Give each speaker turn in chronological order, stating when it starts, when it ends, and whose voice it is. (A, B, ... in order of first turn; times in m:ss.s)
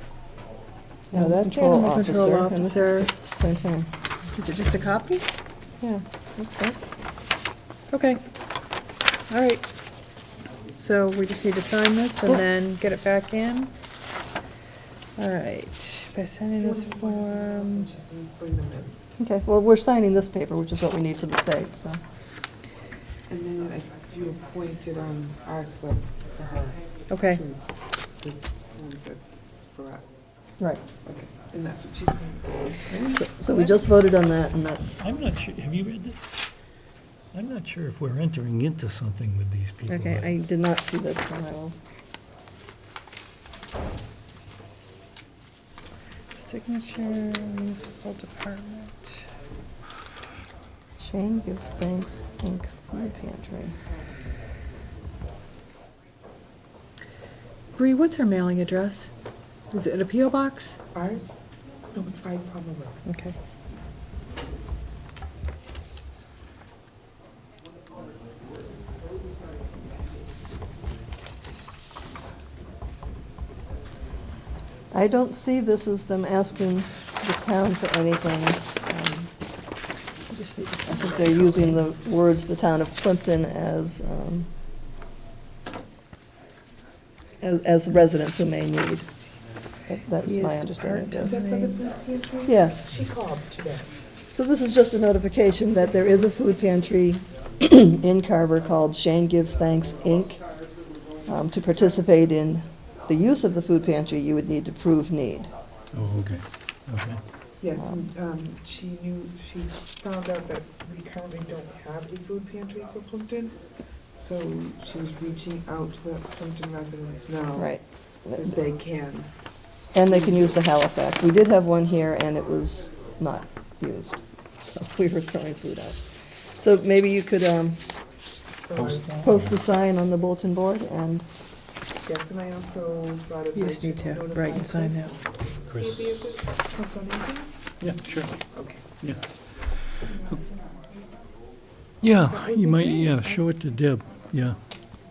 0:01.1-0:03.1 A
0:01.1-0:03.9 B
0:04.4-0:05.2 A
0:05.8-0:06.8 B
0:07.9-0:08.2 A
0:09.3-0:09.6 A
0:10.7-0:13.7 A
0:15.2-0:17.9 A
0:16.6-0:19.0 C
0:19.2-0:22.0 B
0:23.3-0:27.6 C
0:27.1-0:27.4 A
0:28.2-0:30.3 C
0:31.0-0:33.2 C
0:32.9-0:35.0 B
0:35.0-0:36.3 D
0:37.3-0:40.3 D
0:39.9-0:41.8 B
0:46.4-0:49.2 A
0:51.0-0:53.7 B
0:57.8-0:59.1 A
0:59.7-1:00.8 A
1:00.9-1:01.3 C
1:01.9-1:03.0 C
1:03.0-1:03.3 A
1:14.9-1:19.3 B
1:20.3-1:21.8 A
1:20.9-1:24.5 B
1:27.4-1:29.1 B
1:29.9-1:31.4 B
1:30.2-1:31.8 A
1:31.1-1:33.9 C
1:32.4-1:32.9 B
1:34.3-1:40.4 B
1:41.3-1:45.5 B
1:45.9-1:47.2 D
1:47.6-1:53.6 C
1:54.1-1:57.7 C
1:57.6-1:58.5 B
1:58.3-1:59.3 C
1:59.9-2:06.0 B
2:00.1-2:00.6 C
2:06.6-2:07.8 B
2:08.6-2:09.3 C
2:08.8-2:09.6 D
2:09.2-2:11.2 B
2:12.0-2:17.5 C
2:13.5-2:15.1 A
2:15.7-2:16.1 D
2:17.8-2:19.2 D
2:18.5-2:18.8 C
2:20.0-2:20.5 C
2:22.0-2:24.6 D
2:22.2-2:23.5 C